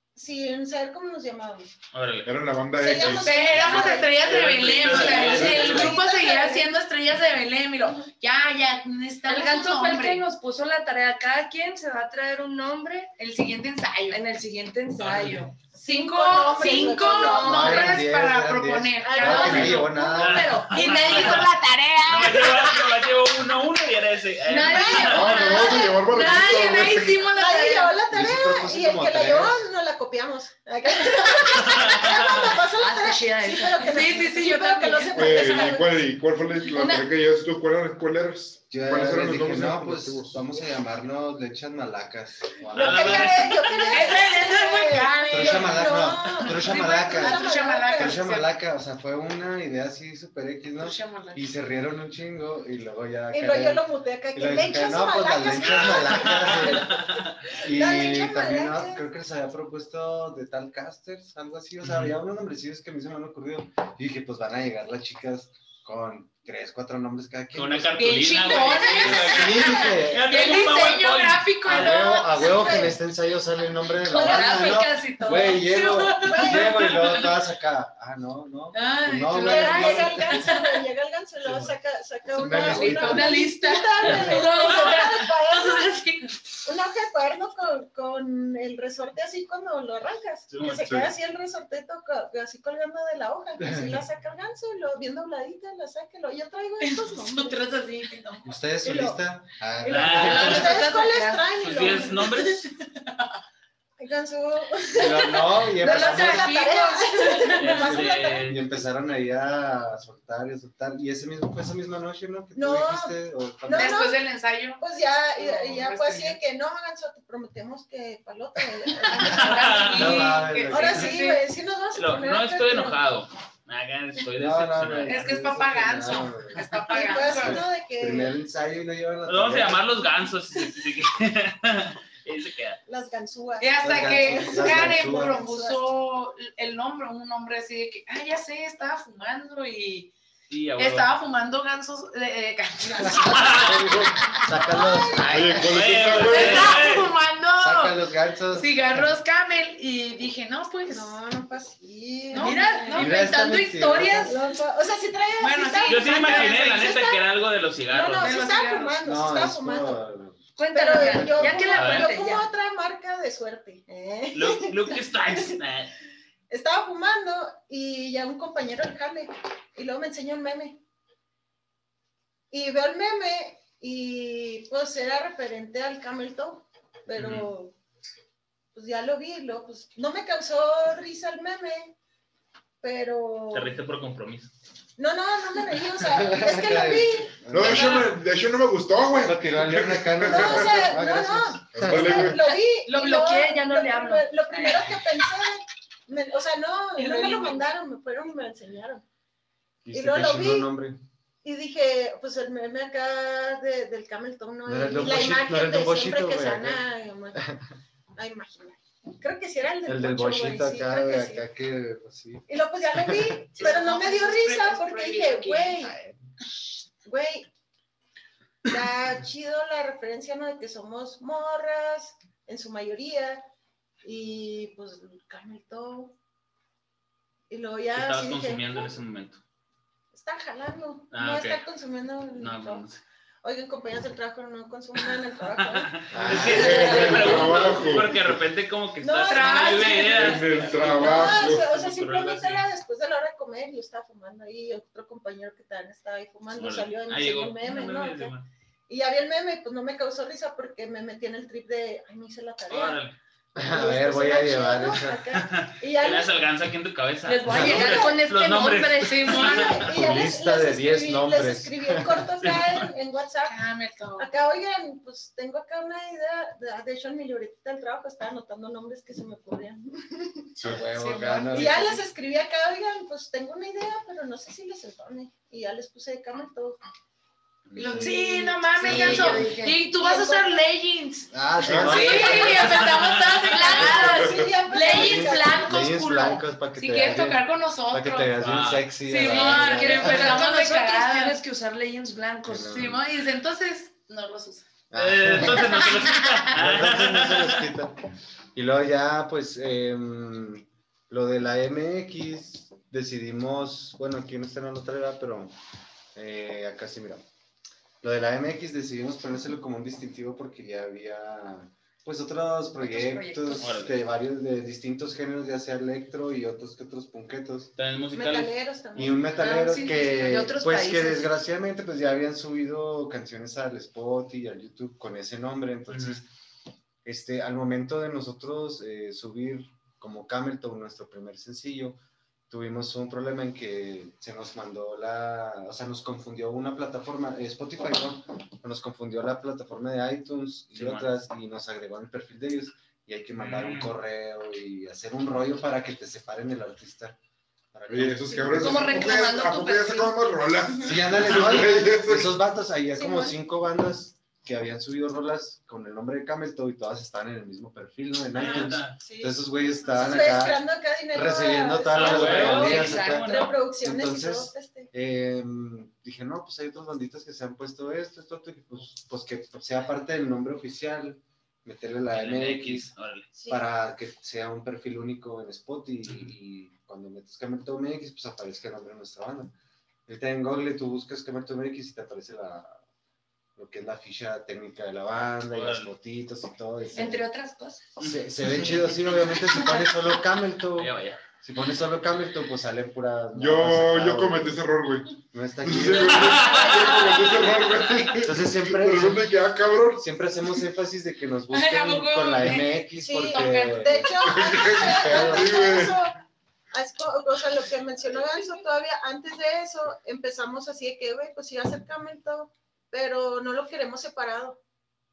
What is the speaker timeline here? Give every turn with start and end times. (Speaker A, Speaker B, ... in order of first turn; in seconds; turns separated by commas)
Speaker A: 0.1-1.7, Speaker B: 1.9-2.3, Speaker C: 2.2-3.8, Speaker A: 2.8-4.1, Speaker D: 3.0-10.2, Speaker B: 3.7-6.0, Speaker A: 4.8-6.7, Speaker E: 9.3-13.1, Speaker D: 13.2-14.2, Speaker E: 14.1-18.0, Speaker B: 15.0-15.5, Speaker D: 15.7-20.0, Speaker A: 16.1-18.0, Speaker F: 17.4-20.6, Speaker A: 19.0-19.8, Speaker E: 19.2-21.5, Speaker B: 19.5-21.5, Speaker D: 20.7-23.0, Speaker B: 22.1-25.5, Speaker E: 24.5-26.4, Speaker A: 24.6-25.6, Speaker D: 24.7-28.0, Speaker C: 25.0-27.2, Speaker A: 27.3-36.0, Speaker F: 28.1-29.7, Speaker B: 31.5-32.4, Speaker E: 32.8-35.4, Speaker D: 33.8-35.2, Speaker C: 35.1-40.4, Speaker E: 36.7-37.1, Speaker F: 38.7-43.4, Speaker A: 42.7-48.4, Speaker B: 42.7-43.9, Speaker D: 42.8-48.5, Speaker F: 45.3-53.8, Speaker D: 50.8-51.5, Speaker A: 53.3-59.0, Speaker F: 54.3-56.9, Speaker B: 55.6-57.4, Speaker F: 57.6-70.2, Speaker B: 61.8-62.1, Speaker B: 67.5-72.0, Speaker D: 68.0-72.9, Speaker F: 71.7-80.4, Speaker A: 72.6-72.9, Speaker E: 74.1-75.7, Speaker D: 74.1-74.5, Speaker D: 75.2-77.3, Speaker A: 76.2-77.0, Speaker D: 78.7-80.8, Speaker A: 79.4-86.0, Speaker E: 79.6-80.0, Speaker B: 81.4-81.7, Speaker C: 82.3-83.3, Speaker D: 82.5-86.3, Speaker F: 82.7-83.2, Speaker A: 86.6-97.6, Speaker B: 90.5-90.9, Speaker C: 90.8-91.1, Speaker F: 93.6-93.9, Speaker D: 96.8-98.5, Speaker F: 98.4-100.8, Speaker A: 98.8-99.2, Speaker A: 99.8-102.6, Speaker B: 99.8-100.9, Speaker E: 100.3-101.5, Speaker B: 101.6-102.7, Speaker D: 102.9-103.3, Speaker A: 104.0-108.4, Speaker F: 105.0-106.6, Speaker D: 105.8-108.0, Speaker B: 107.5-108.6, Speaker F: 107.6-114.0, Speaker A: 112.5-114.2, Speaker D: 113.7-114.8, Speaker A: 114.8-123.0, Speaker D: 115.3-116.4, Speaker D: 119.0-121.4, Speaker B: 119.2-120.3, Speaker F: 119.9-121.1, Speaker B: 121.9-125.4, Speaker F: 124.3-126.7, Speaker D: 125.0-127.7, Speaker A: 126.9-128.3, Speaker F: 127.3-130.0, Speaker B: 129.2-132.8, Speaker A: 132.9-135.8, Speaker D: 133.6-140.1, Speaker F: 133.8-135.4, Speaker B: 140.5-141.1, Speaker D: 140.8-145.0, Speaker F: 142.9-145.8, Speaker B: 143.1-143.8, Speaker C: 143.8-144.1, Speaker A: 144.6-145.6, Speaker C: 145.2-146.9, Speaker B: 145.2-147.1, Speaker D: 146.2-147.9, Speaker F: 147.6-149.2, Speaker D: 148.5-151.1, Speaker A: 150.9-153.2, Speaker D: 152.3-153.2, Speaker E: 152.3-154.1, Speaker F: 152.9-154.3, Speaker D: 153.9-154.4, Speaker A: 154.2-157.2, Speaker D: 155.4-156.9, Speaker B: 155.8-158.4, Speaker A: 157.9-160.0, Speaker D: 158.2-159.0, Speaker F: 159.0-160.4, Speaker E: 160.6-162.5, Speaker A: 160.7-165.6, Speaker F: 161.0-161.6, Speaker B: 161.7-162.2, Speaker B: 164.3-165.9, Speaker A: 166.5-170.8, Speaker A: 172.5-177.7, Speaker B: 177.2-177.5, Speaker A: 178.7-181.9, Speaker A: 182.8-183.8, Speaker B: 183.5-184.5, Speaker A: 185.0-188.2, Speaker F: 186.1-188.2, Speaker C: 187.5-191.0, Speaker F: 189.2-192.4, Speaker A: 190.2-199.0, Speaker C: 191.7-192.4, Speaker E: 192.4-194.8, Speaker E: 197.0-197.5, Speaker D: 197.0-197.6, Speaker F: 199.8-201.0, Speaker A: 199.9-200.7, Speaker A: 201.4-207.5, Speaker F: 204.7-207.6, Speaker A: 208.1-211.4, Speaker F: 209.8-213.6, Speaker A: 212.5-215.9, Speaker D: 213.6-215.8, Speaker F: 215.8-216.2, Speaker A: 217.0-217.5, Speaker A: 218.7-223.4, Speaker A: 224.0-226.2, Speaker A: 227.5-228.9, Speaker B: 227.9-229.4, Speaker A: 230.1-232.8, Speaker B: 231.1-231.6, Speaker B: 232.4-233.0, Speaker A: 233.4-238.1, Speaker B: 235.0-242.7, Speaker F: 236.1-237.3, Speaker C: 236.2-238.3, Speaker A: 239.0-248.3, Speaker D: 239.2-240.4, Speaker C: 240.1-241.7, Speaker B: 246.5-248.4, Speaker A: 248.9-253.0, Speaker B: 252.7-253.2, Speaker F: 253.6-255.2, Speaker A: 253.6-256.3, Speaker B: 255.3-259.9, Speaker E: 257.2-259.6, Speaker F: 257.4-257.9, Speaker A: 257.5-258.2, Speaker D: 259.1-259.8, Speaker A: 259.3-263.6, Speaker F: 259.9-262.3, Speaker B: 262.4-262.9, Speaker D: 263.4-264.3, Speaker A: 264.2-270.5, Speaker C: 270.6-270.9, Speaker F: 270.6-272.0, Speaker D: 270.9-272.0, Speaker A: 271.5-276.8, Speaker F: 277.7-278.1, Speaker D: 277.7-288.4, Speaker E: 278.0-279.8, Speaker F: 278.8-279.5, Speaker A: 279.8-280.6, Speaker F: 281.3-282.9, Speaker C: 281.6-282.4, Speaker A: 282.2-285.9, Speaker B: 282.5-283.8, Speaker C: 283.9-284.5, Speaker F: 284.9-290.5, Speaker B: 288.4-288.9, Speaker D: 289.0-291.4, Speaker E: 289.2-292.9, Speaker F: 292.4-293.1, Speaker D: 292.6-294.7, Speaker F: 294.9-296.0, Speaker B: 294.9-297.7, Speaker D: 295.5-296.4, Speaker F: 296.5-298.0, Speaker F: 298.5-305.6, Speaker F: 306.1-307.2, Speaker F: 308.0-317.7, Speaker E: 312.8-313.7, Speaker B: 313.6-314.0, Speaker B: 317.8-318.5, Speaker A: 318.1-319.3, Speaker F: 318.9-326.3, Speaker D: 319.4-320.6, Speaker E: 320.2-321.2, Speaker B: 325.9-326.2, Speaker F: 327.0-347.2, Speaker B: 340.7-341.1, Speaker B: 343.4-343.9, Speaker F: 347.7-348.9, Speaker C: 347.9-352.3, Speaker A: 348.2-348.7, Speaker E: 348.6-350.1, Speaker A: 350.7-351.0, Speaker F: 350.8-360.6, Speaker A: 351.5-351.8, Speaker A: 353.0-353.3, Speaker B: 358.3-359.0, Speaker A: 358.4-364.9, Speaker F: 361.1-372.9, Speaker B: 361.9-363.6, Speaker E: 362.7-363.3, Speaker B: 372.1-373.3, Speaker A: 373.3-373.6, Speaker F: 373.5-379.5, Speaker B: 376.1-376.3, Speaker F: 380.1-382.8, Speaker F: 383.6-387.2, Speaker B: 385.5-385.9, Speaker E: 386.9-387.9, Speaker F: 388.0-394.6, Speaker B: 388.0-389.8, Speaker B: 390.7-391.2, Speaker C: 393.3-400.0, Speaker F: 395.3-397.0, Speaker B: 396.0-397.2, Speaker B: 397.8-398.1, Speaker F: 398.2-399.3, Speaker F: 399.9-405.6, Speaker D: 401.5-404.2, Speaker A: 402.9-406.1, Speaker C: 404.3-406.0, Speaker A: 406.7-414.6